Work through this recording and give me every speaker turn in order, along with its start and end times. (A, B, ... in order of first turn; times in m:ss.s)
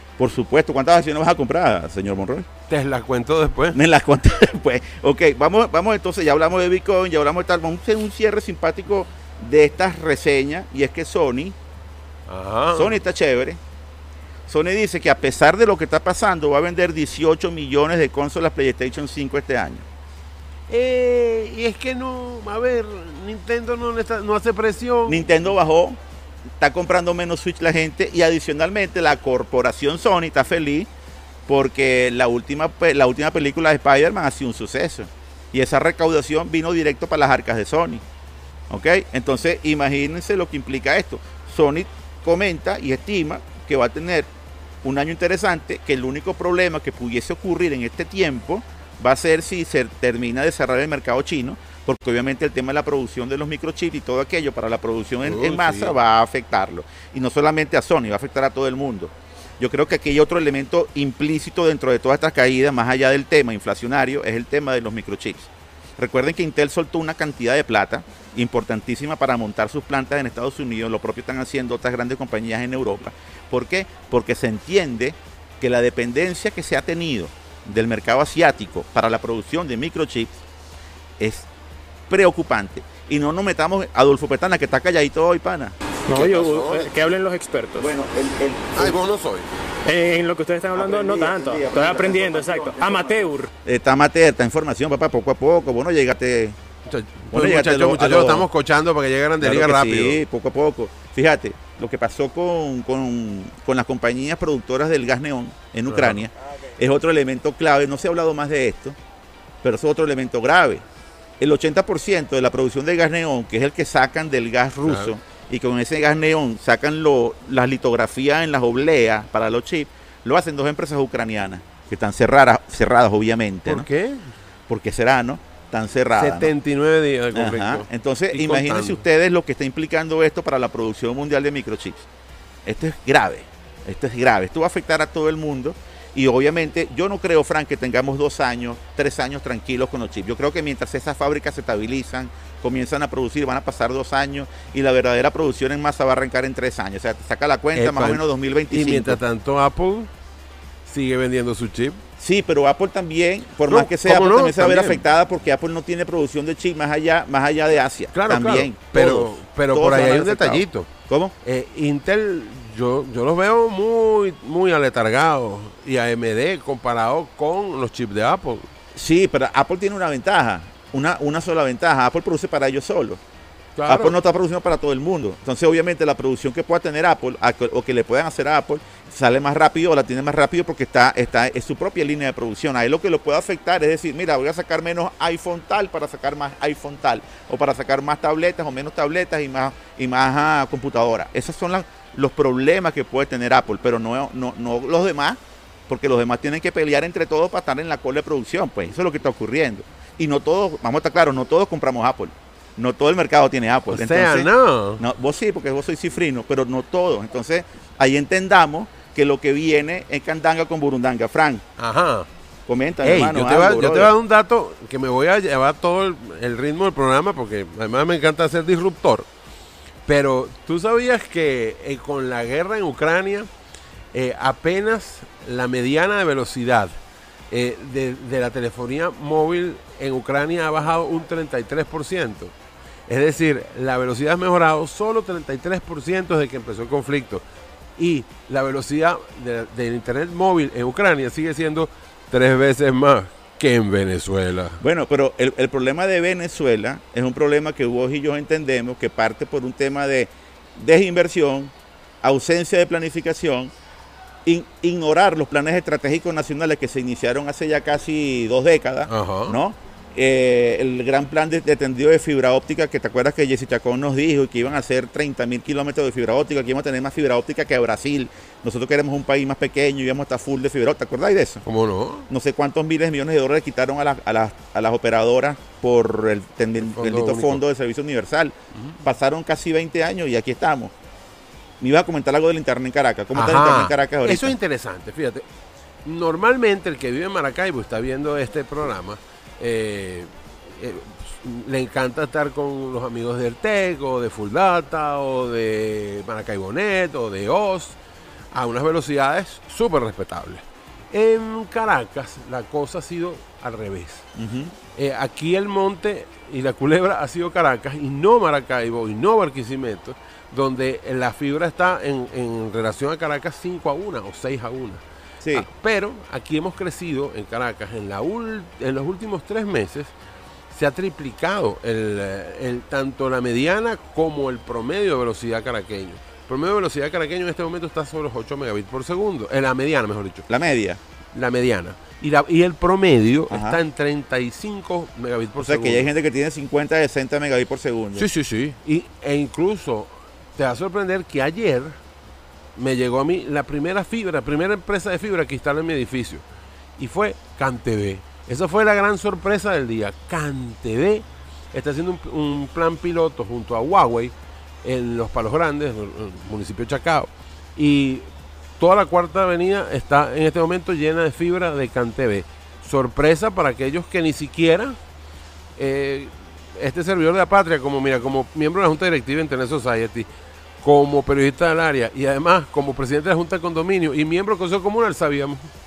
0:00.2-0:02.5 A
0:02.7-0:03.8 B
0:03.7-0:11.6 A
0:12.3-0:13.0 B
0:12.7-0:13.6 A
0:14.5-0:19.8 A
0:20.7-0:25.3 B
0:25.1-0:26.0 A
0:26.6-0:30.9 A
0:31.5-0:38.0 A
0:38.7-0:44.3 A
0:44.8-1:20.3 A
0:55.2-0:56.0 B
1:21.2-1:21.5 A
1:22.1-1:26.9 A
1:26.1-1:27.9 C
1:26.1-1:26.8 B
1:27.8-1:29.0 A
1:28.8-1:29.5 B
1:29.8-1:33.5 C
1:30.7-1:36.6 A
1:36.9-1:40.2 B
1:37.3-1:38.5 A
1:39.4-1:49.0 A
1:45.9-1:46.2 B
1:49.6-1:50.8 A
1:51.4-2:03.9 A
1:54.8-1:55.1 B
2:03.7-2:04.3 B
2:04.7-2:06.5 A
2:06.1-2:09.0 B
2:07.3-2:12.1 A
2:12.6-2:29.2 A
2:27.7-2:30.1 B
2:30.8-2:32.0 B
2:32.2-2:41.3 A
2:33.7-2:35.0 B
2:38.1-2:40.9 B
2:41.4-2:48.7 B
2:48.9-2:53.2 A
2:53.8-2:54.1 B
2:53.8-3:31.6 A
3:23.9-3:25.0 B
3:31.8-3:32.3 B
3:32.7-3:34.1 A
3:33.0-3:39.3 B
3:40.1-3:43.5 B
3:44.1-3:46.9 B
3:47.5-3:52.5 B
3:53.1-3:57.4 B
3:58.0-4:04.8 B
4:04.8-4:13.7 A
4:14.4-4:31.6 A
4:19.1-4:19.6 B
4:31.6-4:32.3 B
4:32.3-4:40.9 A
4:36.8-4:37.6 B
4:38.7-4:39.0 B
4:41.8-4:44.6 A
4:43.3-4:45.4 B
4:46.0-4:58.0 B
4:58.5-5:04.3 B
5:04.4-5:04.7 A
5:04.9-5:20.1 B
5:15.4-5:15.7 A
5:20.7-5:30.5 B
5:30.5-5:31.0 A
5:31.3-5:36.1 B
5:33.5-5:33.8 A
5:35.6-5:38.3 A
5:38.2-5:42.0 B
5:42.8-5:46.4 B
5:47.0-5:58.3 B
5:58.8-6:05.0 B
6:05.8-6:10.3 B
6:10.8-6:15.7 B